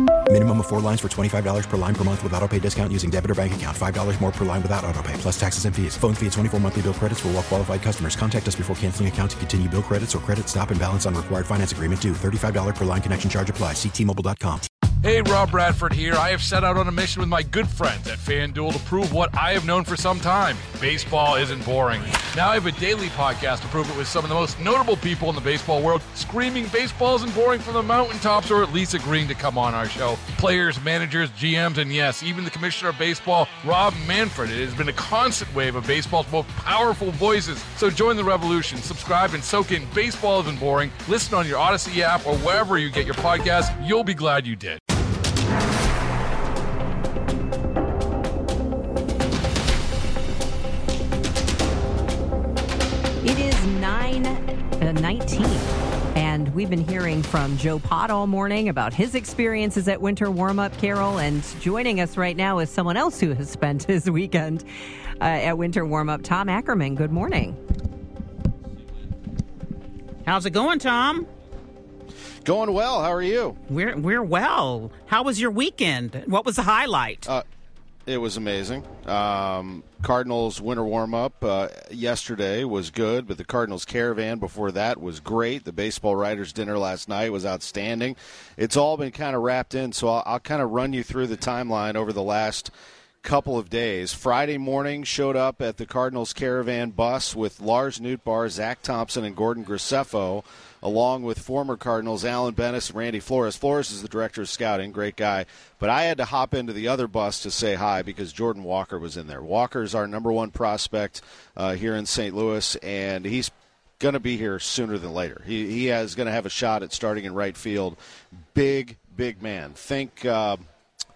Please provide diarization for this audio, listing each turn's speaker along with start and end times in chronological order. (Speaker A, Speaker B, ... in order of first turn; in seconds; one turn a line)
Speaker A: 0.3-14.7
Speaker B: 15.0-44.8
Speaker C: 53.2-64.6
Speaker C: 65.2-67.6
Speaker D: 70.2-71.3
Speaker E: 72.4-73.6
Speaker D: 73.7-77.3
Speaker E: 78.1-92.7
Speaker E: 93.2-118.0
Speaker E: 118.5-120.6